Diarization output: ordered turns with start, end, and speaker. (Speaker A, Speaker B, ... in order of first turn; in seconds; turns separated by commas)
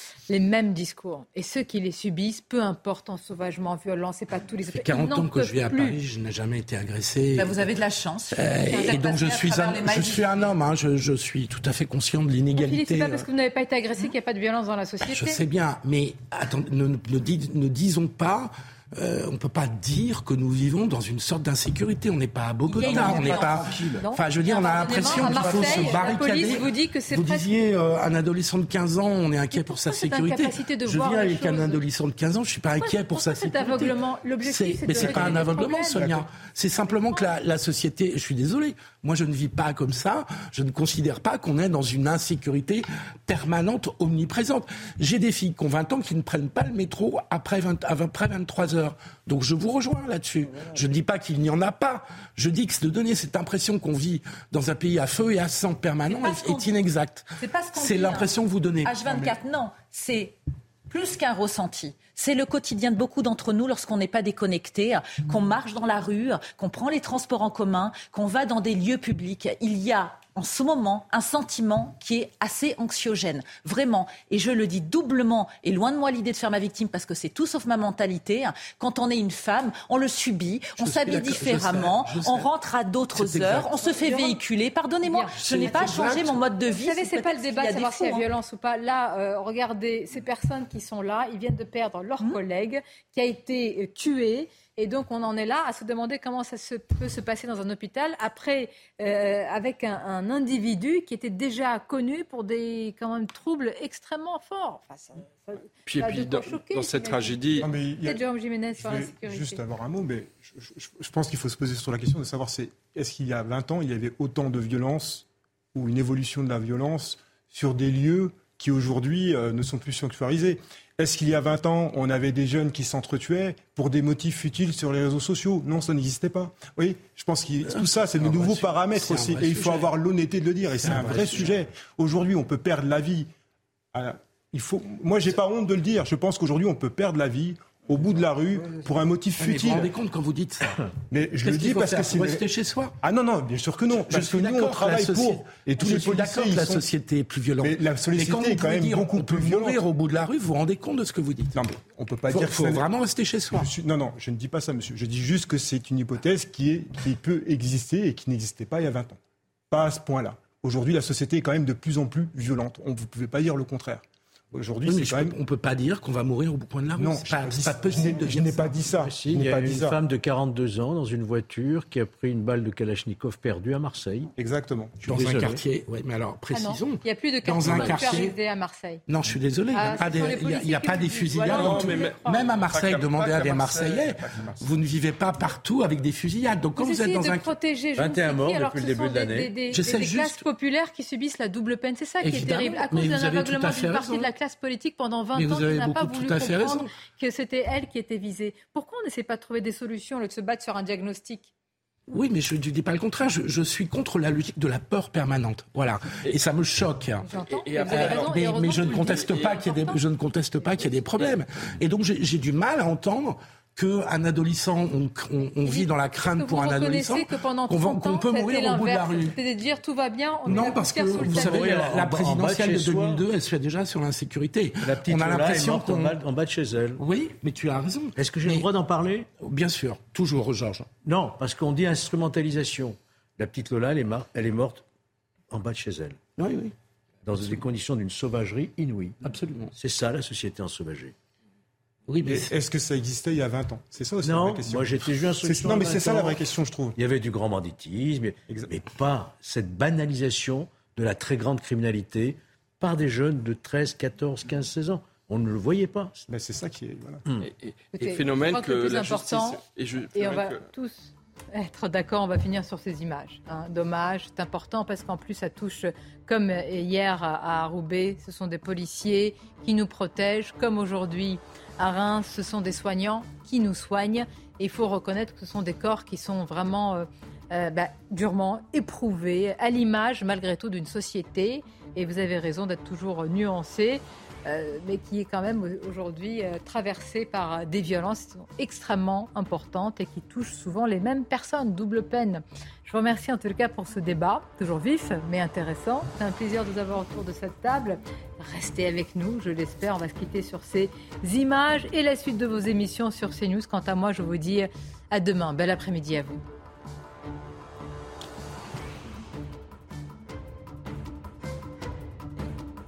Speaker A: 0.3-6.0, Speaker B: 4.8-7.8, Speaker C: 7.3-10.5, Speaker B: 8.3-13.3, Speaker A: 12.6-15.4, Speaker B: 15.0-59.4, Speaker C: 22.7-23.9, Speaker A: 22.9-27.5, Speaker C: 24.9-26.0, Speaker A: 29.5-31.8, Speaker A: 32.8-36.0, Speaker D: 34.9-36.2, Speaker C: 56.1-56.7, Speaker C: 57.4-58.3, Speaker C: 58.8-60.4, Speaker C: 60.9-88.2, Speaker B: 80.8-82.5, Speaker B: 83.1-83.9, Speaker A: 83.9-84.4, Speaker A: 85.0-86.0, Speaker B: 85.4-86.4, Speaker A: 86.7-109.6, Speaker E: 105.8-107.7, Speaker D: 107.6-108.2, Speaker D: 108.8-133.3, Speaker B: 127.6-129.9, Speaker B: 130.8-131.5, Speaker D: 133.9-139.9, Speaker B: 139.4-140.8, Speaker D: 141.1-142.4, Speaker B: 141.4-142.9, Speaker D: 143.0-146.8, Speaker B: 144.1-151.7, Speaker D: 147.6-149.8, Speaker D: 151.5-152.9, Speaker B: 152.3-153.7, Speaker D: 153.5-159.2, Speaker D: 159.7-165.3, Speaker B: 164.8-168.7, Speaker D: 167.0-169.9, Speaker F: 168.9-174.3, Speaker D: 174.4-175.4, Speaker F: 175.0-175.6, Speaker B: 175.1-178.3, Speaker A: 176.5-179.0, Speaker F: 177.7-177.9, Speaker B: 179.1-187.5, Speaker A: 179.7-182.5, Speaker E: 181.5-184.6, Speaker A: 186.8-201.5, Speaker F: 187.9-189.5, Speaker B: 189.7-190.4, Speaker B: 192.2-194.3, Speaker B: 195.3-196.9, Speaker B: 202.1-219.3, Speaker A: 207.2-210.0, Speaker E: 207.5-209.3, Speaker A: 215.6-221.7, Speaker B: 220.4-226.1, Speaker F: 221.2-223.2, Speaker F: 224.8-227.0, Speaker B: 227.0-228.7, Speaker F: 228.2-229.3, Speaker B: 229.4-230.9, Speaker F: 231.0-234.8, Speaker F: 235.5-236.2, Speaker B: 236.4-236.7, Speaker F: 237.2-239.2, Speaker B: 239.2-239.7, Speaker F: 239.7-241.1, Speaker B: 242.1-242.5, Speaker D: 242.2-246.9, Speaker F: 244.2-246.4, Speaker F: 246.9-256.2, Speaker D: 256.3-257.2, Speaker E: 257.6-260.6, Speaker A: 257.9-259.6, Speaker A: 260.1-306.4